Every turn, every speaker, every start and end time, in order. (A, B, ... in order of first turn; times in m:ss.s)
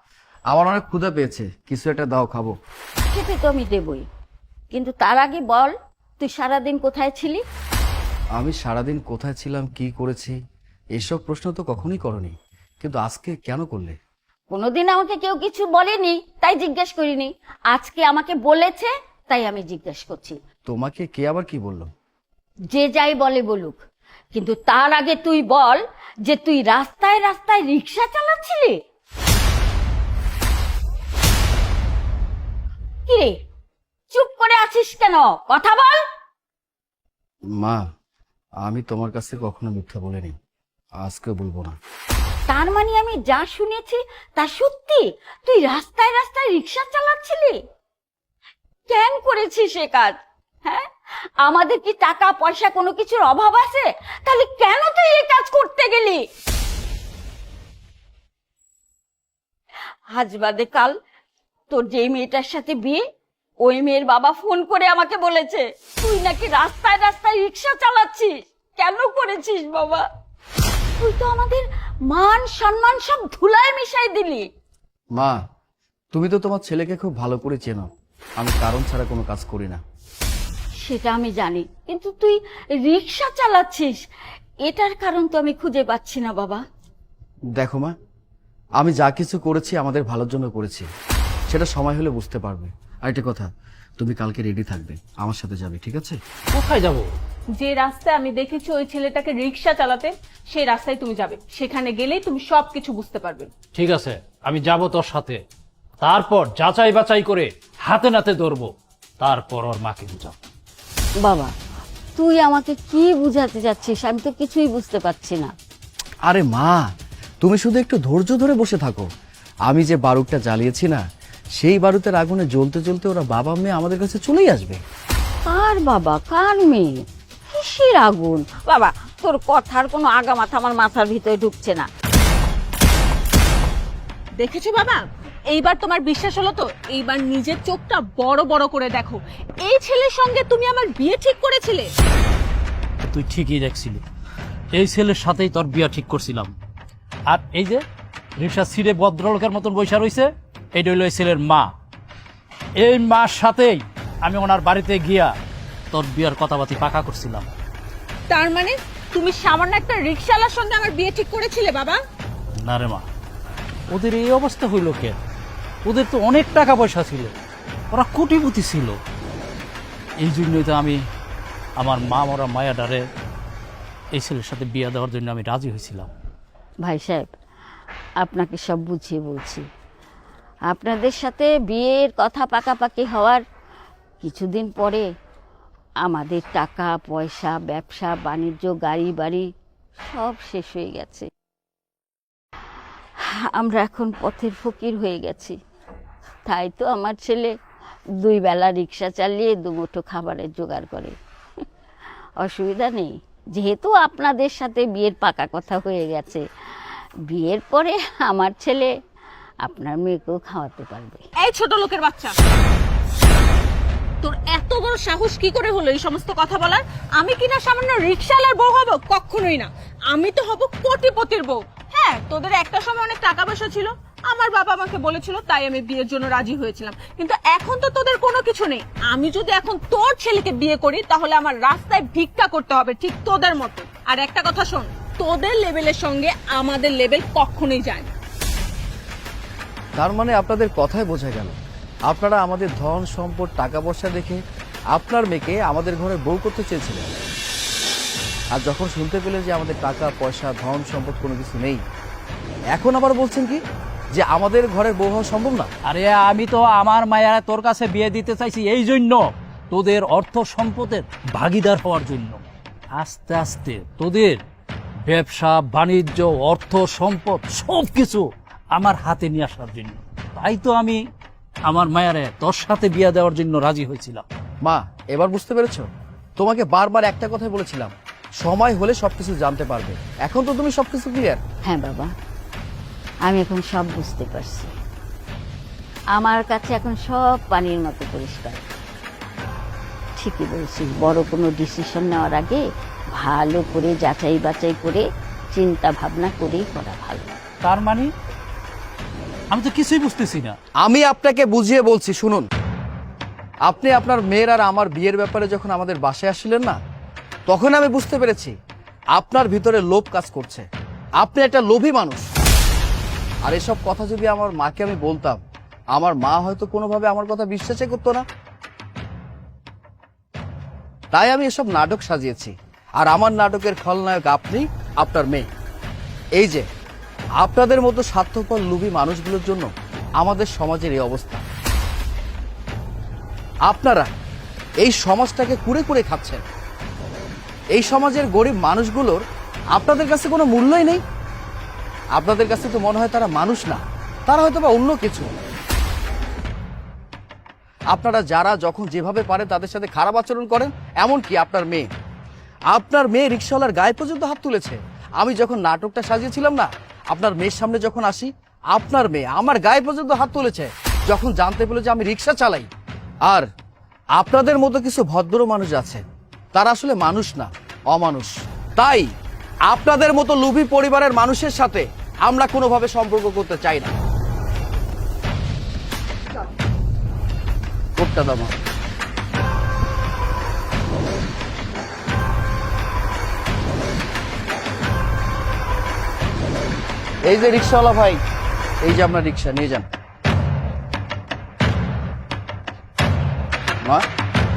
0:00.5-0:02.6 A
0:03.1-0:04.1 B
0:04.7-0:07.4 B
0:08.4-0:10.4 A
0:10.9-0:14.0 A
0:14.5-0:20.4 B
0:20.6-0:21.9 A
0:22.7-0:23.8 B
0:24.3-0:28.8 B
0:33.1-0:33.3 B
0:34.1-0:36.0 B
0:37.6-0:37.8 A
0:38.6-0:40.3 A
0:41.0-0:41.8 A
0:42.5-0:47.6 B
0:48.9-0:50.9 B
0:51.4-0:56.2 B
1:00.1-1:00.9 B
1:01.7-1:03.0 B
1:03.6-1:10.0 B
1:11.0-1:14.5 B
1:16.1-1:17.9 A
1:18.4-1:19.8 A
1:20.8-1:24.0 B
1:24.6-1:26.6 B
1:27.6-1:27.9 A
1:28.8-1:30.9 A
1:31.5-1:36.2 A
1:36.5-1:37.1 C
1:37.6-1:43.5 D
1:43.7-1:45.4 C
1:46.0-1:50.4 C
1:51.2-1:51.5 B
1:52.2-1:55.5 B
1:56.2-1:56.8 A
1:57.4-1:59.1 A
1:59.7-2:01.0 A
2:01.6-2:04.8 A
2:05.4-2:06.9 B
2:07.5-2:11.9 B
2:14.4-2:21.9 D
2:23.1-2:24.0 C
2:24.7-2:26.5 C
2:27.3-2:27.8 C
2:28.4-2:31.7 C
2:32.8-2:35.3 C
2:35.9-2:37.5 C
2:38.3-2:42.0 D
2:42.6-2:43.0 C
2:43.9-2:45.2 C
2:45.8-2:47.3 C
2:47.9-2:49.0 C
2:50.2-2:51.0 C
2:51.8-2:53.0 C
2:54.1-2:56.1 C
2:56.8-2:57.3 B
2:58.2-2:59.6 B
3:00.7-3:03.4 B
3:04.2-3:05.1 B
3:06.0-3:09.5 B
3:10.0-3:11.3 B
3:13.3-3:15.6 B
3:16.5-3:17.5 B
3:18.2-3:21.6 B
3:22.4-3:28.9 B
3:29.6-3:31.2 B
3:31.4-3:32.3 D
3:34.2-3:58.1 D
4:00.0-4:01.6 A
4:02.1-4:07.2 A
4:08.5-4:11.8 A
4:12.7-4:13.6 A
4:14.1-4:15.7 A
4:15.8-4:22.4 C
4:23.0-4:24.4 C
4:25.0-4:31.0 C
4:31.6-4:34.2 C
4:34.6-4:35.8 A
4:36.4-4:41.4 A
4:41.6-4:42.1 B
4:43.2-4:44.7 B
4:46.1-4:48.6 B
4:50.2-4:57.3 B
4:57.6-4:58.1 C
4:59.5-5:00.6 C
5:00.8-5:02.5 A
5:03.6-5:06.8 A
5:07.5-5:08.5 A
5:09.1-5:10.6 A
5:11.2-5:12.2 A
5:13.4-5:15.4 A
5:15.9-5:18.2 A
5:21.1-5:25.5 A
5:26.4-5:26.6 A
5:27.4-5:31.4 A
5:33.7-5:34.1 A
5:34.8-5:36.4 A
5:37.7-5:39.2 A
5:39.7-5:41.0 A
5:42.1-5:45.3 A
5:47.9-5:51.9 A
5:52.7-6:02.7 A
6:04.2-6:06.0 A
6:06.5-6:09.1 A
6:09.7-6:13.9 A
6:18.0-6:18.5 A
6:27.2-6:28.2 A
6:28.8-6:29.8 A